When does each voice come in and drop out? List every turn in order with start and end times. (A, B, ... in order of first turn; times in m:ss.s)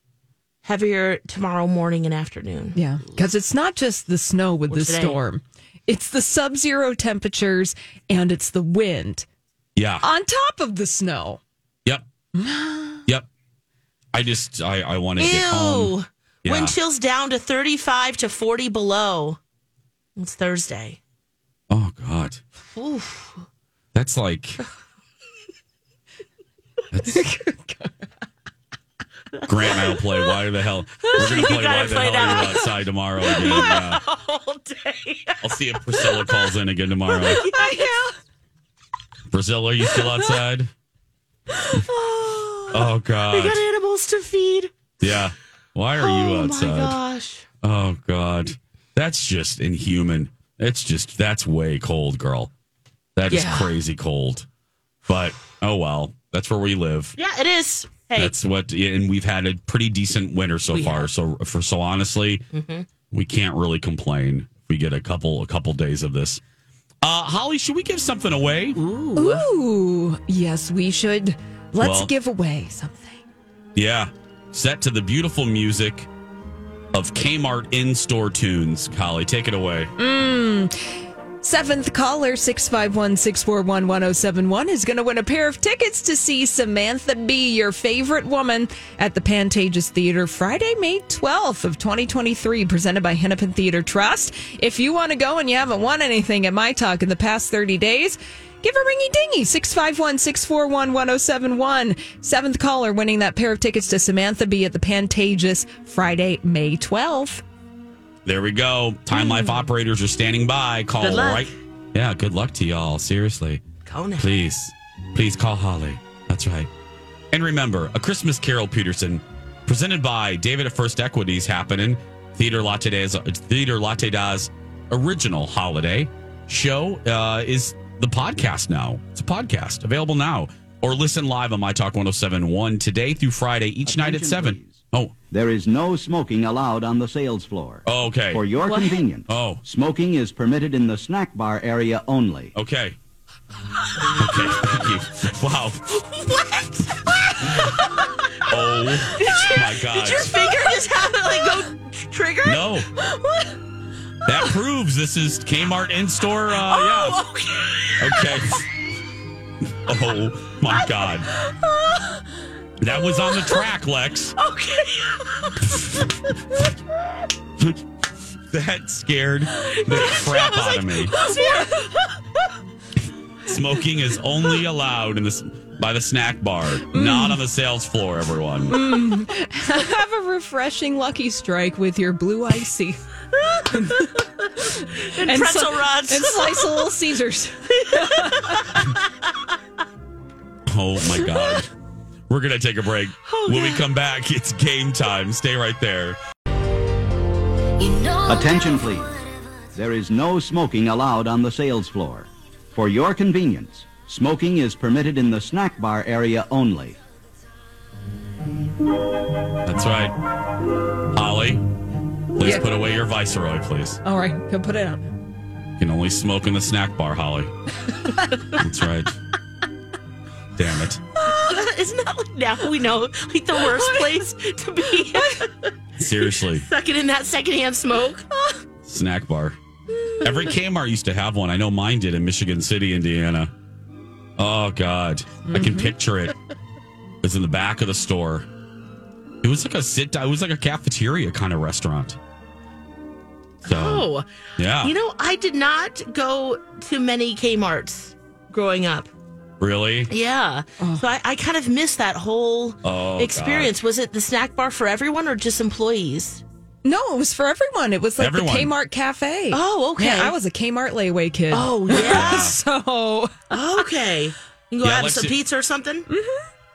0:00.6-0:03.2 A
0:02.7-0:09.3 B
0:04.7-0:05.2 A
0:09.8-0:10.0 C
0:10.0-0:11.4 B
0:12.3-0:13.0 B
0:14.1-0:16.7 C
0:15.2-0:19.4 A
0:20.2-0:21.0 A
0:21.7-0:22.4 C
0:22.7-0:23.4 A
0:23.9-0:24.6 C
0:26.9-0:27.3 C
0:27.1-0:28.0 B
0:29.4-0:34.0 C
0:31.0-0:36.5 A
0:35.4-0:37.5 C
0:37.1-0:38.1 A
0:37.4-0:38.1 B
0:39.3-0:40.7 C
0:41.7-0:44.7 A
0:42.7-0:43.6 C
0:45.0-0:47.0 C
0:46.0-0:47.4 A
0:47.6-0:52.5 C
0:53.2-0:54.4 C
0:53.3-0:53.7 A
0:55.0-0:57.2 C
0:57.2-0:58.3 A
0:58.2-1:02.4 C
1:00.7-1:01.1 A
1:02.5-1:02.9 A
1:03.1-1:06.4 C
1:07.0-1:08.8 C
1:08.7-1:09.5 A
1:09.1-1:13.2 B
1:11.8-1:12.1 C
1:13.7-1:16.1 C
1:16.9-1:19.9 C
1:20.0-1:20.7 B
1:21.4-1:47.4 B
1:48.2-1:53.6 C
1:49.1-1:49.7 A
1:51.0-1:51.5 A
1:53.8-1:54.3 A
1:54.2-1:56.7 C
1:57.3-2:15.1 C
2:13.8-2:22.5 D
2:17.8-2:18.4 C
2:18.6-2:19.0 A
2:19.3-2:19.6 C
2:22.5-2:23.0 C
2:24.1-2:26.0 C
2:26.1-2:32.8 A
2:28.4-2:30.5 C
2:32.4-2:32.9 C
2:34.2-2:37.2 C
2:36.6-2:38.3 A
2:38.0-2:38.6 C
2:39.9-2:41.3 C
2:40.7-2:41.1 A
2:42.8-2:44.3 C
2:44.4-2:45.7 A
2:48.5-2:51.2 C
2:49.6-2:52.0 A
2:51.2-2:51.7 B
2:53.4-2:58.9 C
2:56.9-2:57.4 B
2:58.7-3:03.0 B
3:03.4-3:06.9 A
3:03.7-3:04.1 B
3:05.2-3:08.6 B
3:07.7-3:09.0 A
3:10.7-3:11.7 C
3:12.3-3:16.2 C
3:13.2-3:13.8 A
3:18.2-3:19.1 D
3:19.7-3:27.0 D
3:29.6-3:30.1 C
3:31.1-3:31.6 C
3:32.3-3:34.0 C
3:32.4-3:32.8 B
3:34.0-3:35.1 B
3:35.8-3:37.5 C
3:38.5-3:39.1 C
3:40.6-3:41.0 C
3:41.2-3:45.7 A
3:43.7-3:44.1 B
3:46.0-3:46.6 C
3:46.5-3:48.5 A
3:48.8-3:49.6 C
3:50.2-3:53.5 C
3:54.4-3:56.3 C
3:55.4-3:55.9 B
3:57.2-3:58.5 C
3:59.4-4:02.2 C
4:03.6-4:04.3 A
4:03.6-4:04.9 C
4:04.8-4:09.1 A
4:09.6-4:10.1 C
4:10.1-4:16.4 A
4:12.8-4:13.7 C
4:16.8-4:23.3 B
4:18.2-4:18.7 C
4:19.5-4:20.4 A
4:21.5-4:22.5 A
4:21.9-4:22.6 C
4:23.5-4:26.0 A
4:24.8-4:25.3 C
4:26.1-4:26.5 B